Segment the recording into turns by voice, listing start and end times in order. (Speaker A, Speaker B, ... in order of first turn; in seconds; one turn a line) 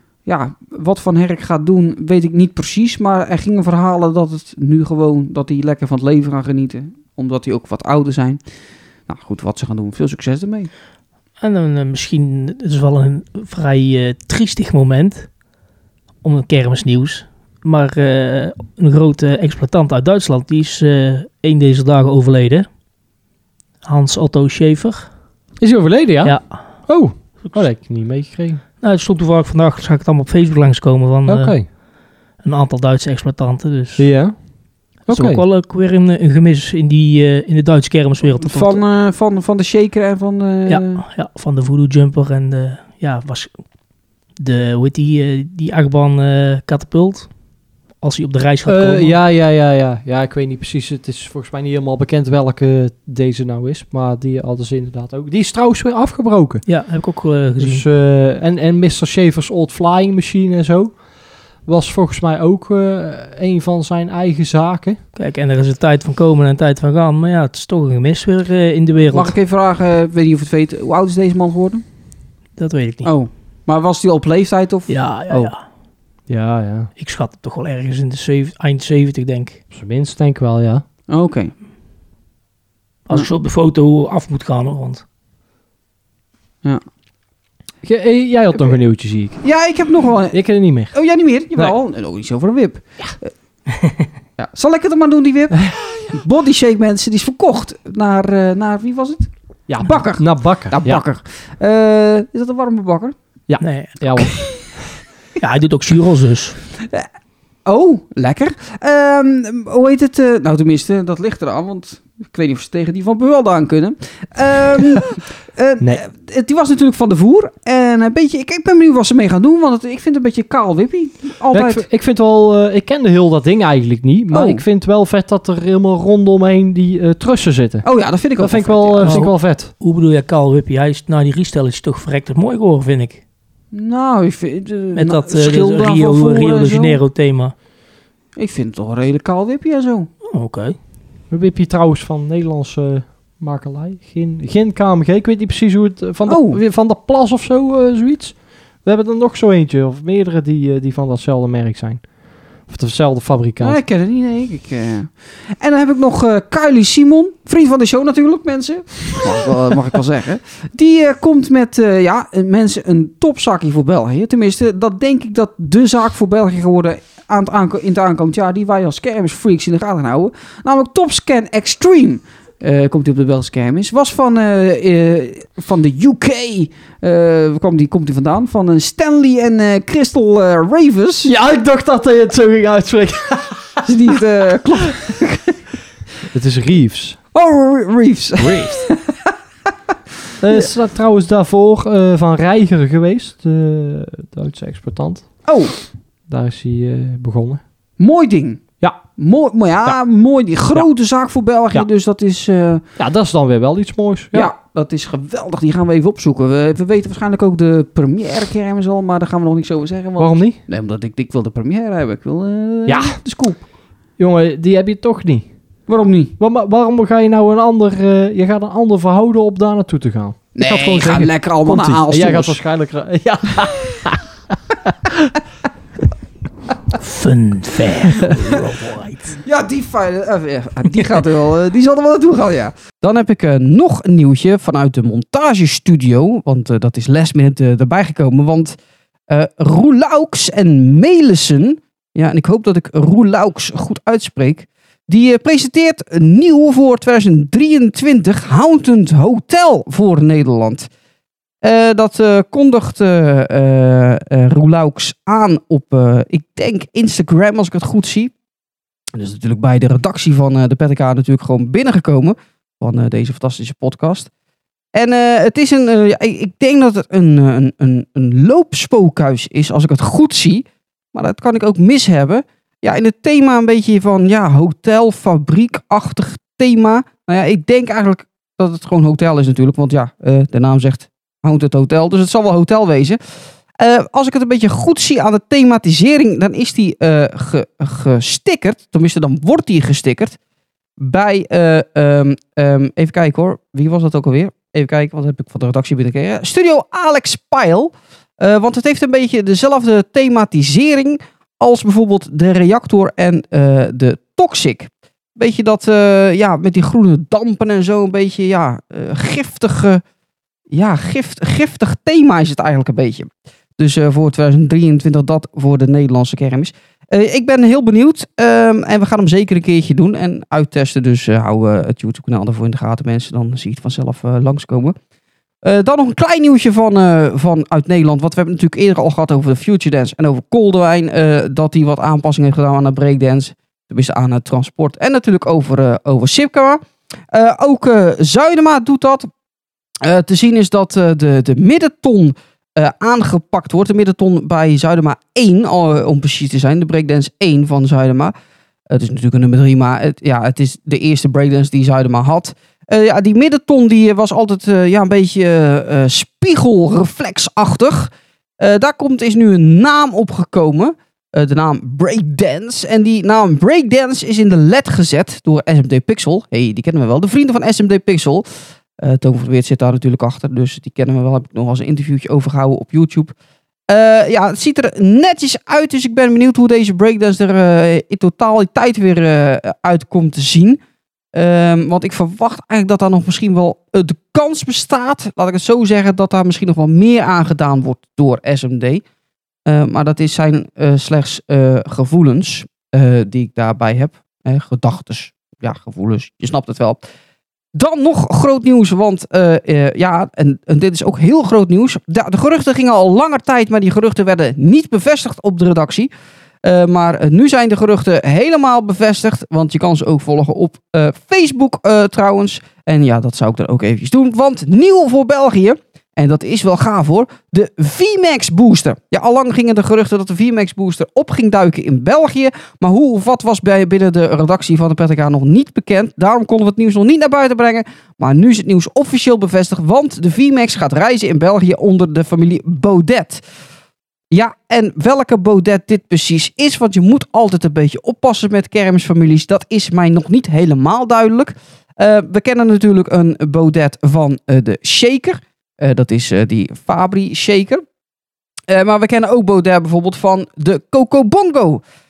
Speaker A: 0.3-8.4
Speaker A: 9.1-10.7
Speaker B: 11.4-15.3
Speaker B: 16.2-22.7
Speaker B: 23.8-25.1
Speaker C: 25.6-28.6
Speaker B: 26.2-26.6
Speaker B: 28.8-31.7
Speaker C: 31.3-31.7
Speaker B: 32.4-34.1
Speaker C: 34.0-34.4
Speaker C: 35.1-35.4
Speaker B: 35.1-38.8
Speaker A: 38.4-41.0
Speaker B: 40.7-43.5
Speaker B: 44.4-47.3
Speaker B: 48.0-49.2
Speaker C: 48.7-56.7
Speaker B: 56.7-57.9
Speaker C: 57.6-61.0
Speaker C: 61.7-65.0
Speaker B: 65.2-69.3
Speaker A: 69.1-71.8
Speaker B: 72.6-73.1
Speaker A: 73.0-75.5
Speaker B: 74.9-75.6
Speaker C: 76.3-76.9
Speaker B: 77.0-79.6
Speaker C: 79.7-80.8
Speaker A: 81.1-81.5
Speaker B: 83.1-85.0
Speaker C: 87.8-89.4
Speaker A: 89.4-93.3
Speaker C: 90.3-91.0
Speaker A: 94.4-103.2
Speaker C: 95.6-95.9
Speaker C: 99.7-101.0
Speaker C: 103.5-104.3
Speaker B: 103.6-104.3
Speaker B: 105.4-106.6
Speaker A: 107.7-121.9
Speaker C: 121.5-127.9
Speaker A: 124.3-124.6
Speaker A: 127.8-129.3
Speaker C: 128.4-129.7
Speaker B: 129.0-133.2
Speaker A: 133.7-137.0
Speaker B: 135.0-137.5
Speaker A: 138.4-140.1
Speaker B: 140.3-140.8
Speaker C: 141.3-152.1
Speaker A: 146.3-146.6
Speaker C: 152.6-153.8
Speaker A: 153.6-181.3
Speaker C: 181.2-183.8
Speaker A: 183.8-185.6
Speaker C: 186.3-187.2
Speaker A: 187.3-189.2
Speaker C: 188.4-188.8
Speaker C: 190.4-195.5
Speaker A: 195.4-195.8
Speaker C: 196.3-197.6
Speaker A: 198.0-202.8
Speaker C: 203.0-204.5
Speaker A: 204.3-213.6
Speaker C: 210.2-210.6
Speaker C: 212.9-213.2
Speaker C: 214.2-215.5
Speaker A: 215.9-216.3
Speaker C: 216.4-224.2
Speaker A: 220.6-222.6
Speaker C: 224.8-225.4
Speaker B: 227.0-229.4
Speaker A: 229.4-238.8
Speaker A: 239.3-250.9
Speaker A: 251.6-258.3
Speaker A: 259.1-264.3
Speaker A: 264.9-283.2
Speaker A: 283.8-290.4
Speaker A: 291.0-310.0
Speaker A: 310.7-324.9
Speaker A: 325.6-336.8
Speaker A: 337.3-339.3
Speaker A: 340.0-348.3
Speaker A: 348.9-368.4
Speaker A: 369.0-373.3
Speaker A: 373.9-380.8
Speaker A: 381.4-389.0
Speaker A: 389.7-397.0
Speaker A: 397.7-406.1
Speaker A: 406.6-433.4
Speaker A: 434.3-447.8
Speaker A: 448.7-451.8